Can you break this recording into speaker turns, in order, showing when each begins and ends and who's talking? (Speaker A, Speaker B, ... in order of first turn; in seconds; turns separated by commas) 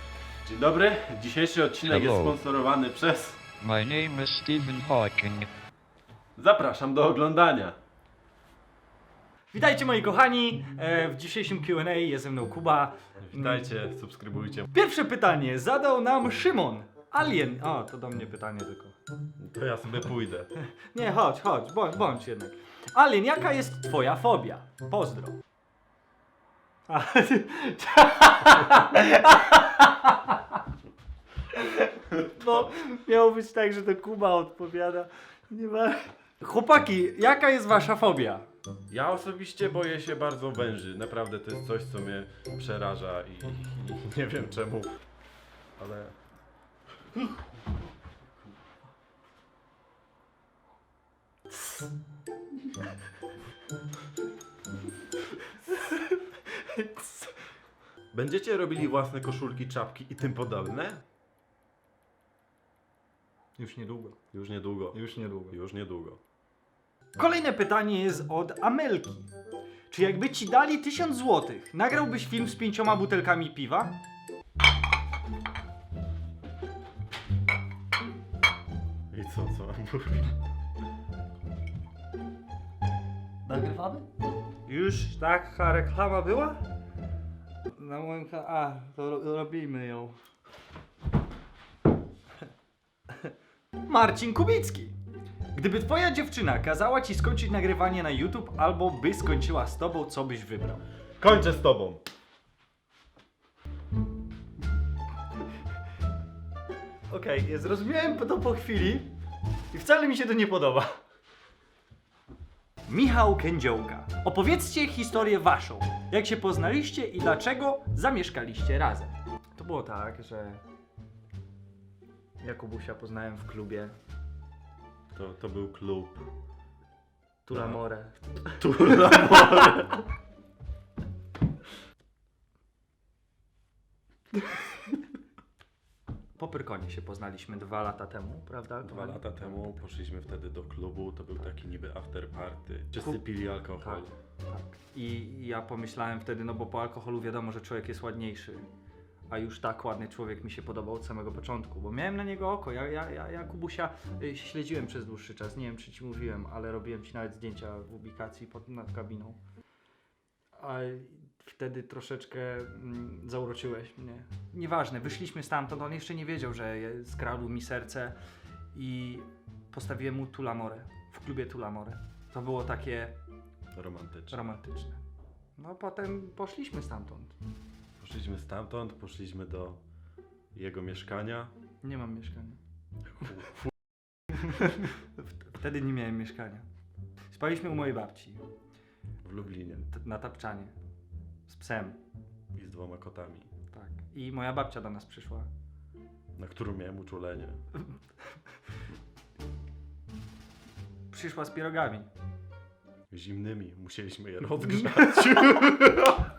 Speaker A: 0.4-3.4, Speaker B: 1.8-2.4, Speaker B: 3.6-5.5, Speaker A: 6.4-7.7, Speaker C: 9.5-13.7, Speaker A: 13.2-14.7, Speaker C: 14.7-18.9, Speaker A: 19.4-20.5, Speaker C: 20.8-25.4, Speaker C: 26.9-30.6, Speaker C: 31.5-38.5, Speaker A: 38.9-44.9, Speaker A: 45.8-46.1, Speaker C: 55.6-57.3, Speaker A: 58.1-61.0, Speaker C: 63.6-64.2, Speaker A: 64.3-65.0, Speaker C: 64.9-65.5, Speaker A: 65.5-66.2, Speaker C: 67.2-69.3, Speaker C: 69.9-73.9, Speaker A: 79.1-80.3, Speaker C: 83.5-84.0, Speaker C: 84.7-86.6, Speaker C: 87.7-90.2, Speaker C: 93.8-94.9, Speaker C: 95.5-100.8, Speaker A: 101.2-102.0, Speaker C: 107.1-109.1, Speaker C: 109.7-110.9, Speaker C: 112.9-120.6, Speaker C: 122.4-124.0, Speaker A: 125.1-126.2, Speaker C: 127.5-129.5, Speaker A: 127.5-127.8, Speaker A: 128.6-130.0, Speaker C: 136.4-139.7, Speaker A: 138.8-144.1, Speaker C: 143.8-148.7, Speaker C: 149.3-159.4, Speaker C: 160.6-168.2, Speaker C: 168.7-173.1, Speaker A: 173.7-174.4, Speaker C: 174.3-175.0, Speaker C: 175.6-177.3, Speaker A: 178.0-179.8, Speaker A: 180.5-181.5, Speaker C: 181.8-182.6, Speaker A: 183.1-183.7, Speaker C: 184.3-186.6, Speaker C: 187.3-188.4, Speaker A: 189.2-189.9, Speaker C: 189.8-190.7, Speaker C: 191.5-192.0, Speaker A: 192.5-193.5, Speaker C: 193.7-195.5, Speaker A: 196.4-197.6, Speaker C: 201.1-202.1, Speaker A: 203.1-206.2, Speaker C: 204.8-205.7